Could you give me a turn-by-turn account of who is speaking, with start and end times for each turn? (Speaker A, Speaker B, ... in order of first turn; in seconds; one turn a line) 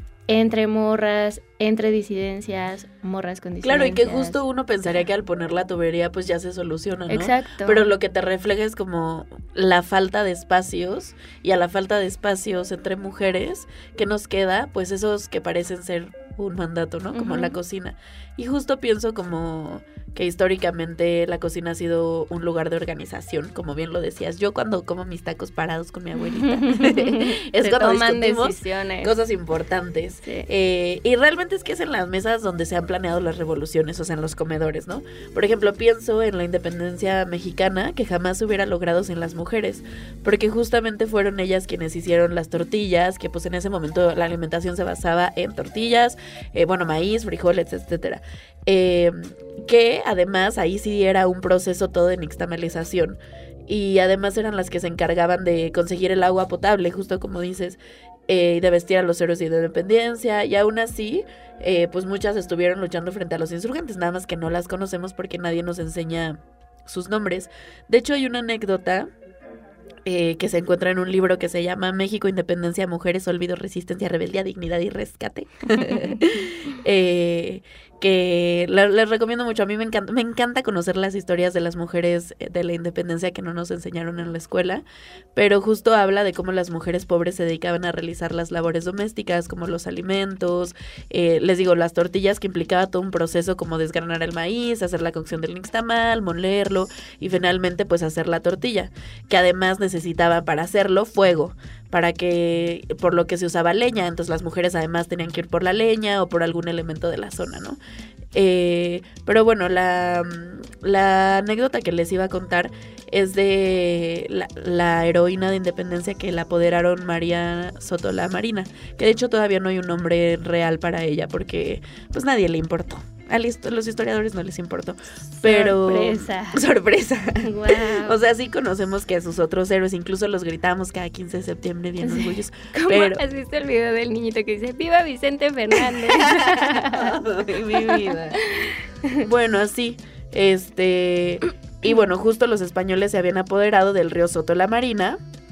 Speaker A: 0.3-4.4
Speaker B: 3.6-69.1
Speaker A: 7.1-7.9
Speaker A: 17.1-17.6
Speaker A: 26.2-29.1
Speaker B: 70.0-84.8
Speaker B: 85.3-107.8
Speaker B: 108.3-133.2
Speaker A: 125.4-126.6
Speaker A: 127.4-128.2
Speaker A: 132.0-137.1
Speaker B: 135.8-138.4
Speaker A: 138.5-139.2
Speaker B: 139.2-145.2